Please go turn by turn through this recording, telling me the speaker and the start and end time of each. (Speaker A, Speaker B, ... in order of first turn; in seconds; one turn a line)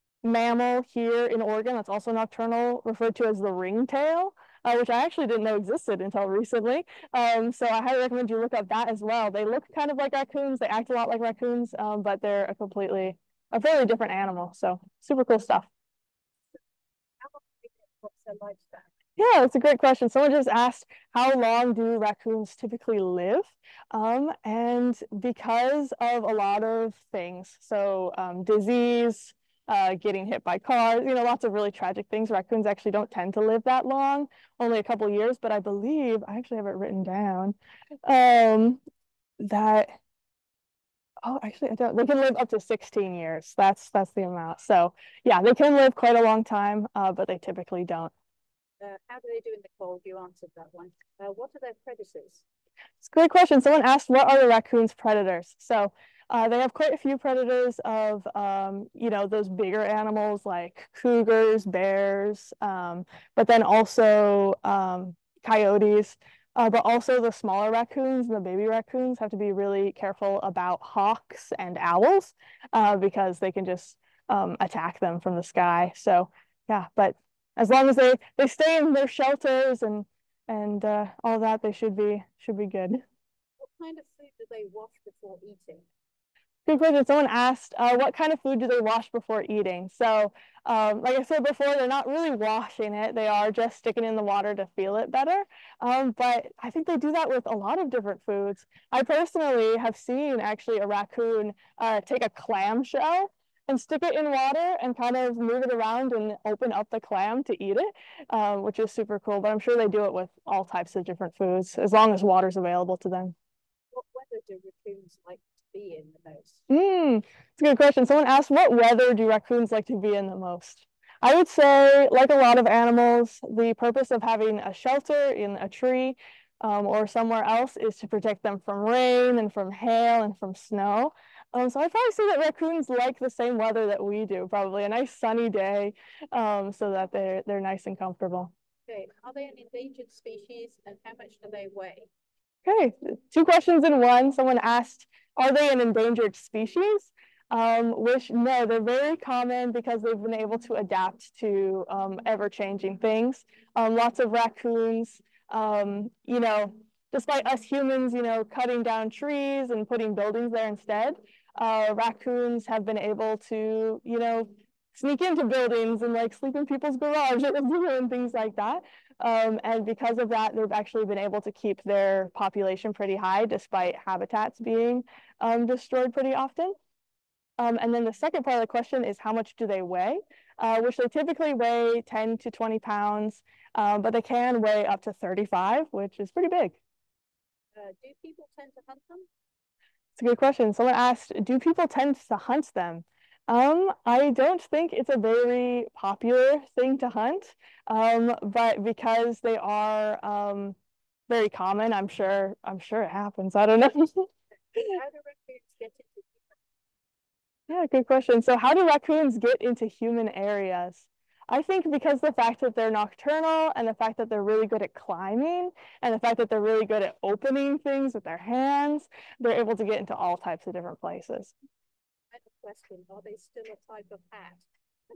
Speaker A: 0.2-15.7
Speaker B: 17.2-18.9
Speaker A: 19.2-38.8
Speaker A: 39.4-40.0
Speaker A: 41.2-48.1
Speaker B: 48.8-52.4
Speaker A: 53.0-83.0
Speaker B: 83.6-85.9
Speaker A: 86.7-113.3
Speaker B: 113.9-116.6
Speaker A: 116.7-138.5
Speaker B: 138.9-142.1
Speaker A: 142.7-176.8
Speaker A: 177.6-186.8
Speaker B: 187.8-189.3
Speaker A: 190.2-200.8
Speaker A: 201.3-205.0
Speaker B: 204.9-206.6
Speaker A: 207.7-221.5
Speaker B: 222.3-224.7